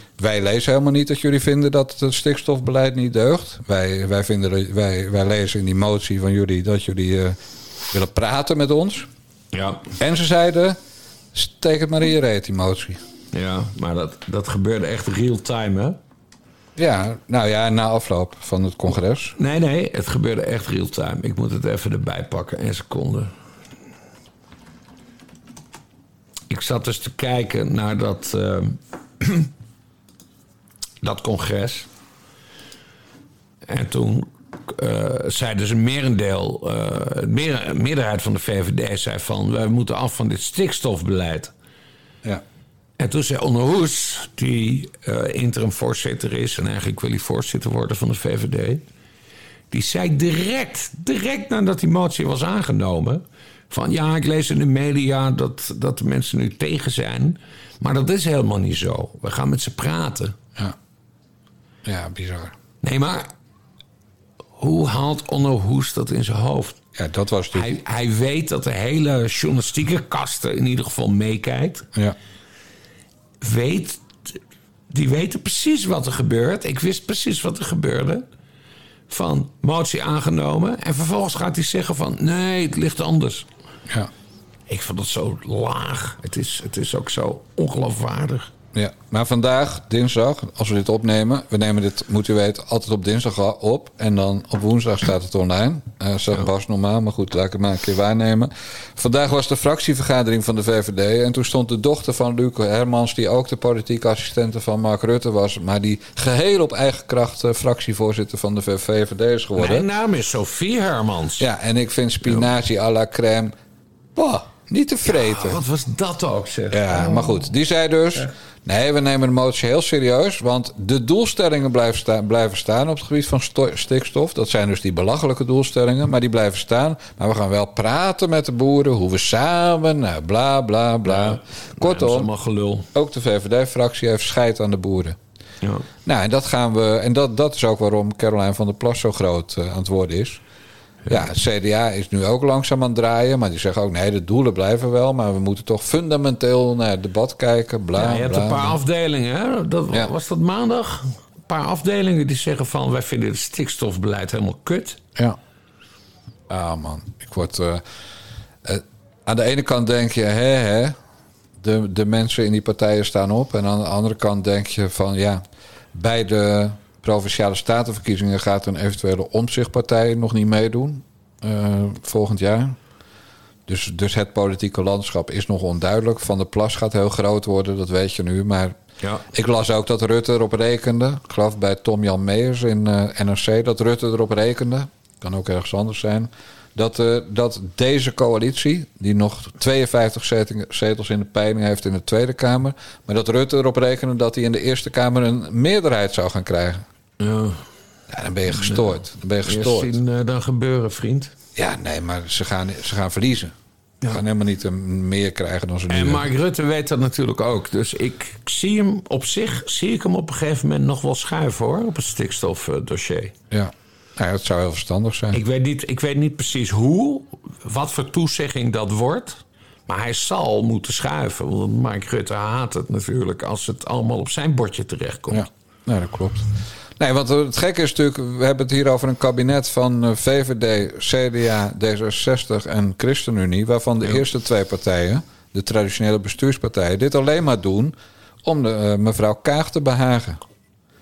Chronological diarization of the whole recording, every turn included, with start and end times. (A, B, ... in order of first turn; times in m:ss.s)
0:00.2-0:07.4 A
0:07.9-0:09.1 A
0:09.5-0:09.9 B
0:10.0-0:10.8 A
0:11.3-0:13.0 A
0:13.3-0:16.0 B
0:16.8-0:19.4 A
0:19.4-0:23.3 B
0:26.5-0:29.5 B
0:31.0-0:31.9 B
0:33.7-0:41.5 B
0:43.0-0:48.8 B
0:49.7-1:00.3 B
1:01.8-1:02.5 A
1:02.8-1:03.3 B
1:04.6-1:06.8 B
1:06.9-1:07.7 A
1:07.5-1:11.9 B
1:13.4-1:14.4 B
1:14.9-1:18.2 B
1:19.1-1:23.5 B
1:24.7-1:28.5 B
1:28.7-1:49.8 A
1:49.6-1:51.5 B
1:51.4-1:53.5 A
1:54.2-1:55.6 A
1:55.0-1:57.4 B
1:56.7-2:12.3 A
2:11.0-2:12.9 B
2:12.9-2:15.2 A
2:15.6-2:15.9 B
2:16.0-2:20.4 A
2:21.1-2:28.8 A
2:27.9-2:35.0 B
2:36.5-2:37.8 A
2:38.6-2:41.0 A
2:41.6-2:45.4 A
2:45.9-2:52.8 A
2:53.7-2:58.8 A
2:59.3-3:16.8 A
3:17.2-3:17.6 B
3:18.1-3:19.9 A
3:18.5-3:18.8 B
3:19.4-3:21.3 B
3:21.6-3:23.5 A
3:24.1-3:26.2 A
3:25.9-3:33.3 B
3:33.5-3:35.4 A
3:35.3-3:45.5 B
3:45.3-4:00.4 A